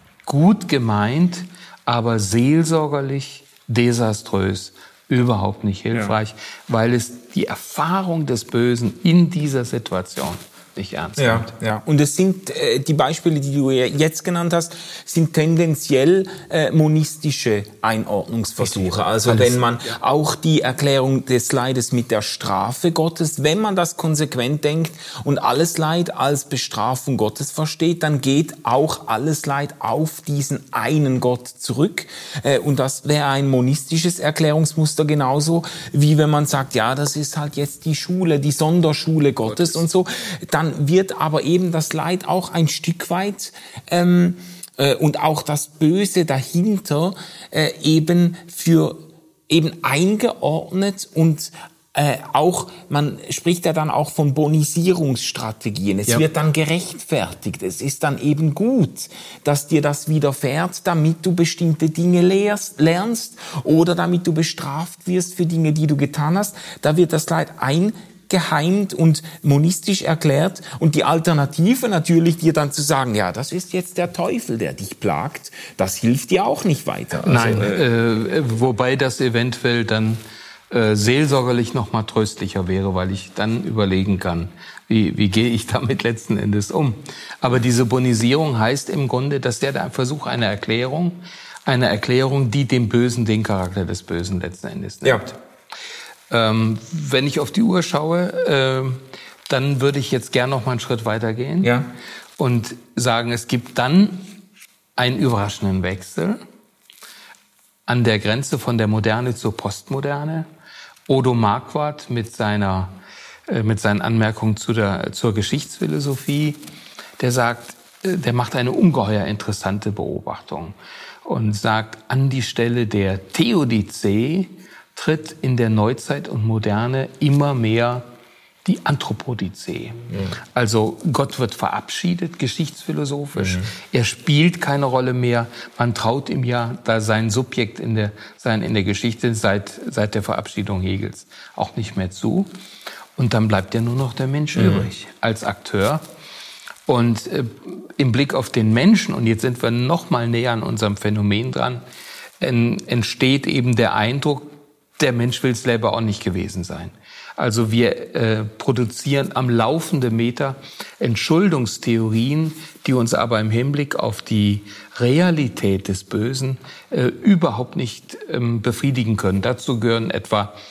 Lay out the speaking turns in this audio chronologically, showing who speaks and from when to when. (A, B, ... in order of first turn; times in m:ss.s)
0:00.3-0:11.5 A
0:11.2-1:17.8 B
0:18.6-0:20.0 A
0:39.4-0:39.8 A
1:17.2-1:35.4 A
1:36.3-1:41.8 A
1:41.6-1:41.9 B
1:42.4-1:44.3 A
1:45.0-1:46.4 A
1:47.9-1:50.5 A
1:51.1-1:53.0 A
1:53.5-1:56.6 A
1:57.2-2:08.0 A
2:08.6-2:22.5 A
2:10.1-2:10.4 B
2:13.4-2:13.7 B
2:23.2-2:26.0 A
2:24.6-2:24.9 B
2:26.9-2:31.8 A
2:32.4-2:50.5 A